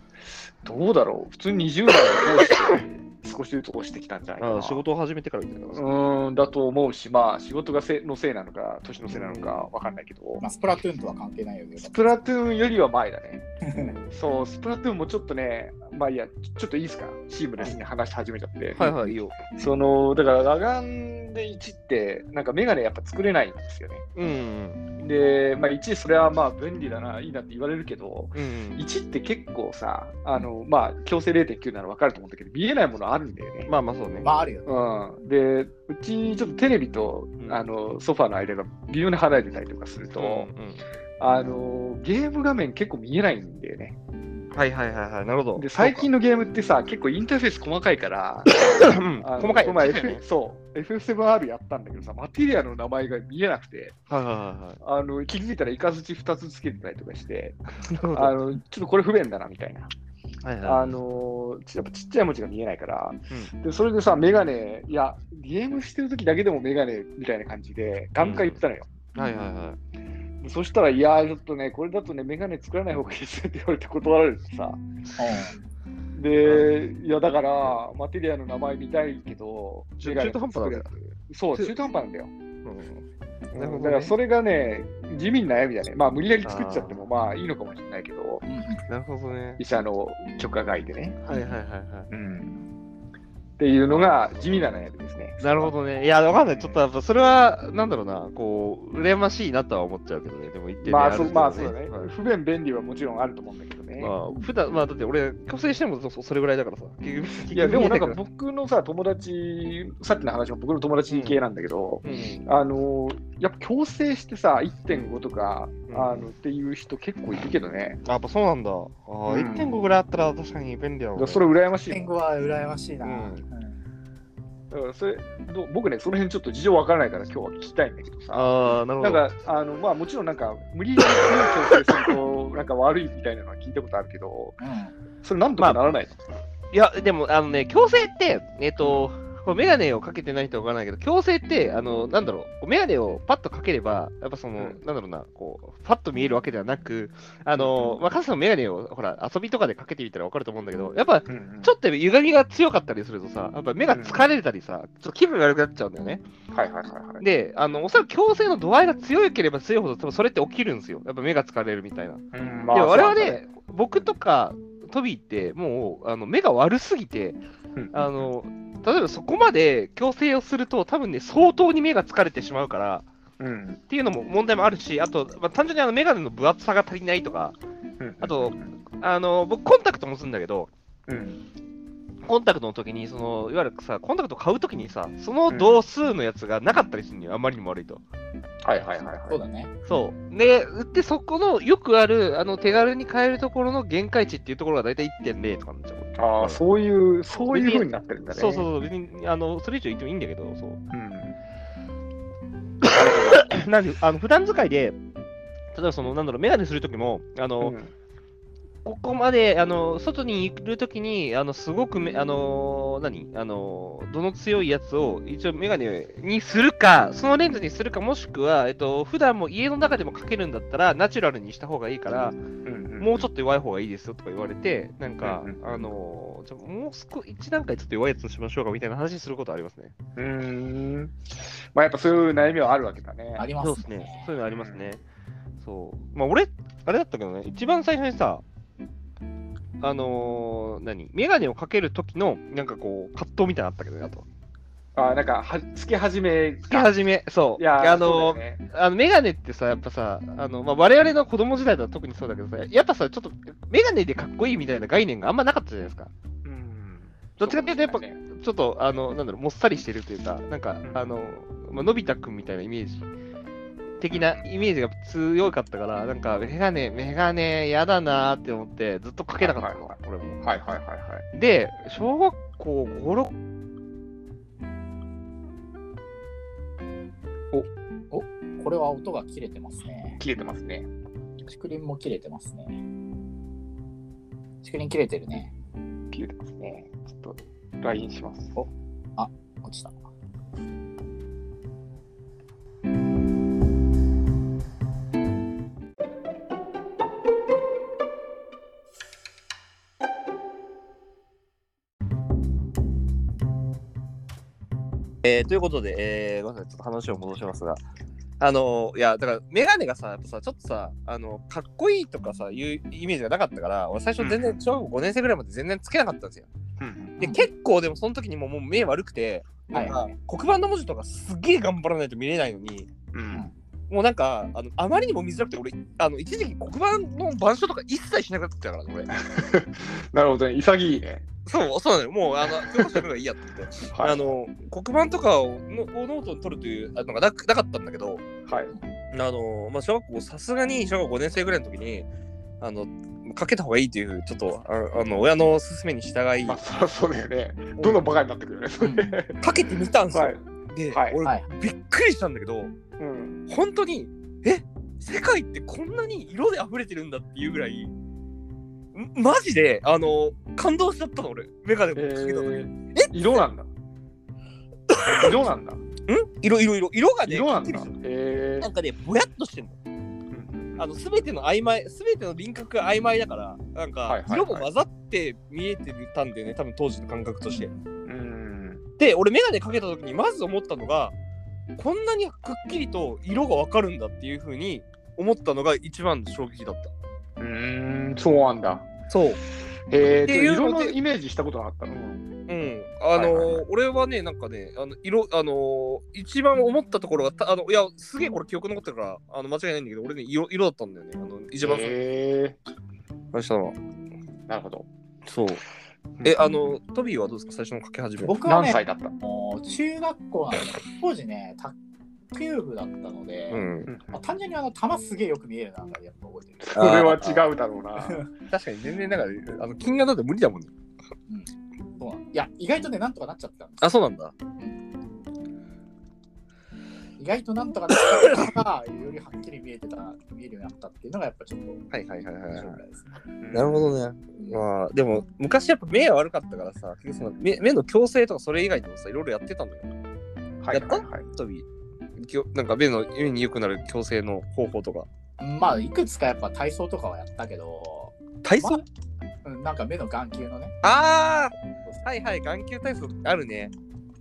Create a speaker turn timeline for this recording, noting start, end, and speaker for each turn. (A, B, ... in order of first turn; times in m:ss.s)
0:00.6-0:04.8 A
0:04.4-0:05.9 B
0:05.7-0:10.4 A
0:09.1-0:09.7 B
0:10.4-0:12.0 C
0:11.8-0:13.5 A
0:13.6-0:14.0 C
0:14.0-0:24.1 A
0:18.8-0:19.4 B
0:24.2-0:24.8 B
0:25.0-0:33.7 A
0:28.4-0:28.8 B
0:33.7-0:34.3 B
0:34.2-0:34.7 C
0:34.7-0:40.5 A
0:40.2-0:40.8 B
0:41.2-0:44.0 A
0:44.5-0:46.1 B
0:45.6-0:54.0 A
0:48.7-0:50.2 B
0:54.1-0:54.8 B
0:54.8-0:57.6 A
0:57.8-0:58.4 B
0:58.1-0:59.9 A
1:00.4-1:01.0 B
1:00.6-1:08.9 A
1:08.2-1:08.6 B
1:09.2-1:09.8 B
1:10.4-1:14.8 A
1:15.1-1:15.4 B
1:15.2-1:15.6 C
1:16.1-1:22.3 A
1:16.4-1:16.8 B
1:20.0-1:21.8 B
1:22.6-1:23.0 B
1:23.5-1:28.4 A
1:23.6-1:24.2 B
1:26.4-1:27.0 B
1:28.4-1:28.8 C
1:28.9-1:29.6 B
1:29.6-1:31.2 A
1:31.2-1:32.1 B
1:32.1-1:32.7 A
1:33.6-1:35.7 A
1:33.9-1:34.5 B
1:35.4-1:42.1 B
1:36.5-1:36.8 A
1:40.8-1:44.1 A
1:44.0-1:48.2 B
1:47.5-1:58.0 A
1:51.1-1:51.4 B
1:52.0-1:52.4 B
1:55.9-1:56.3 B
1:58.0-2:01.4 B
1:59.3-1:59.8 A
2:01.2-2:02.1 A
2:01.9-2:03.8 C
2:03.0-2:03.4 B
2:04.7-2:14.6 A
2:08.3-2:09.3 B
2:14.6-2:14.9 C
2:15.2-2:16.2 A
2:16.7-2:36.2 B
2:18.8-2:19.1 A
2:27.6-2:28.0 A
2:31.3-2:31.7 A
2:33.9-2:34.2 A
2:36.5-2:37.2 A
2:37.2-2:47.4 B
2:42.3-2:43.4 A
2:47.8-2:48.3 A
2:47.9-2:53.1 B
2:53.4-2:53.8 A
2:53.9-2:57.6 B
2:58.0-2:58.7 A
2:58.2-3:00.7 B
3:01.1-3:01.4 A
3:02.2-3:08.0 B
3:05.5-3:05.8 A
3:08.6-3:09.4 A
3:09.3-3:09.7 C
3:09.9-3:16.6 B
3:16.2-3:18.7 A
3:17.3-3:20.8 B
3:20.9-3:21.4 A
3:22.8-3:23.5 A
3:23.3-3:25.0 B
3:25.7-3:27.8 B
3:27.6-3:27.9 A
3:28.8-3:42.4 B
3:42.6-3:43.2 A
3:43.0-3:49.9 B
3:45.2-3:45.9 A
3:50.2-3:53.5 A
3:53.4-3:54.3 C
3:53.6-3:55.0 B
3:54.5-3:54.8 A
3:55.6-3:58.4 B
3:59.8-4:04.3 B
4:05.0-4:06.9 A
4:06.7-4:16.1 B
4:07.6-4:08.6 A
4:16.4-4:18.2 A
4:17.4-4:23.1 B
4:24.0-4:30.4 B
4:24.1-4:24.5 A
4:29.4-4:31.2 A
4:31.3-4:33.4 B
4:38.1-4:40.2 C
4:40.2-4:40.9 A
4:41.5-4:42.8 C
4:44.6-4:45.5 C
4:46.1-4:48.5 A
4:48.6-4:49.9 C
5:05.2-5:07.8 B
5:08.4-5:16.5 B
5:14.2-5:14.6 A
5:16.8-5:17.2 A
5:17.2-5:22.9 B
5:17.2-5:17.5 C
5:19.7-5:20.1 C
5:23.1-5:23.5 A
5:23.9-5:29.2 B
5:29.1-5:31.2 A
5:31.5-5:38.3 B
5:32.4-5:33.0 A
5:33.9-5:34.3 A
5:38.5-5:38.7 A
5:39.1-5:42.1 B
5:42.6-5:46.6 B
5:46.4-5:49.4 A
5:48.8-5:49.2 C
5:49.4-5:52.7 B
5:50.1-5:51.2 A
5:53.0-5:53.4 A
5:53.5-5:57.9 B
5:58.9-6:03.4 B
6:02.0-6:03.7 A
6:04.9-6:05.4 B
6:05.1-6:05.8 A
6:06.1-6:08.0 B
6:07.3-6:08.7 A
6:08.6-6:09.8 B
6:10.3-6:10.8 A
6:10.8-6:17.7 B
6:14.1-6:14.7 A
6:18.0-6:18.8 A
6:19.0-6:21.1 B
6:21.8-6:26.9 B
6:27.4-6:28.9 A
6:29.1-6:29.4 B
6:29.7-6:32.2 A
6:30.0-6:30.9 B
6:32.5-6:42.0 B
6:33.2-6:33.6 A
6:41.6-6:42.6 A
6:43.3-6:43.8 B
6:44.5-6:44.9 A
6:45.3-6:45.6 B
6:46.2-6:46.8 A
6:46.2-6:48.4 B
6:48.2-6:51.8 C
6:48.4-6:49.1 A
6:52.3-6:56.7 C
6:53.5-6:53.9 B
6:53.9-6:54.2 A
6:56.6-6:58.2 A
6:56.7-6:57.5 B
6:58.0-6:58.3 C
6:58.5-7:00.7 B
7:01.3-7:03.8 C
7:03.8-7:04.3 B
7:07.2-7:11.8 C
7:08.0-7:08.5 B
7:11.9-7:12.8 B
7:12.5-7:13.1 C
7:13.4-7:14.0 A
7:13.5-7:19.9 B
7:20.6-7:21.2 A
7:20.7-7:21.7 B
7:22.2-7:25.1 B
7:25.4-7:28.8 C
7:28.4-7:28.8 B
7:29.4-7:30.8 C
7:30.8-7:33.7 B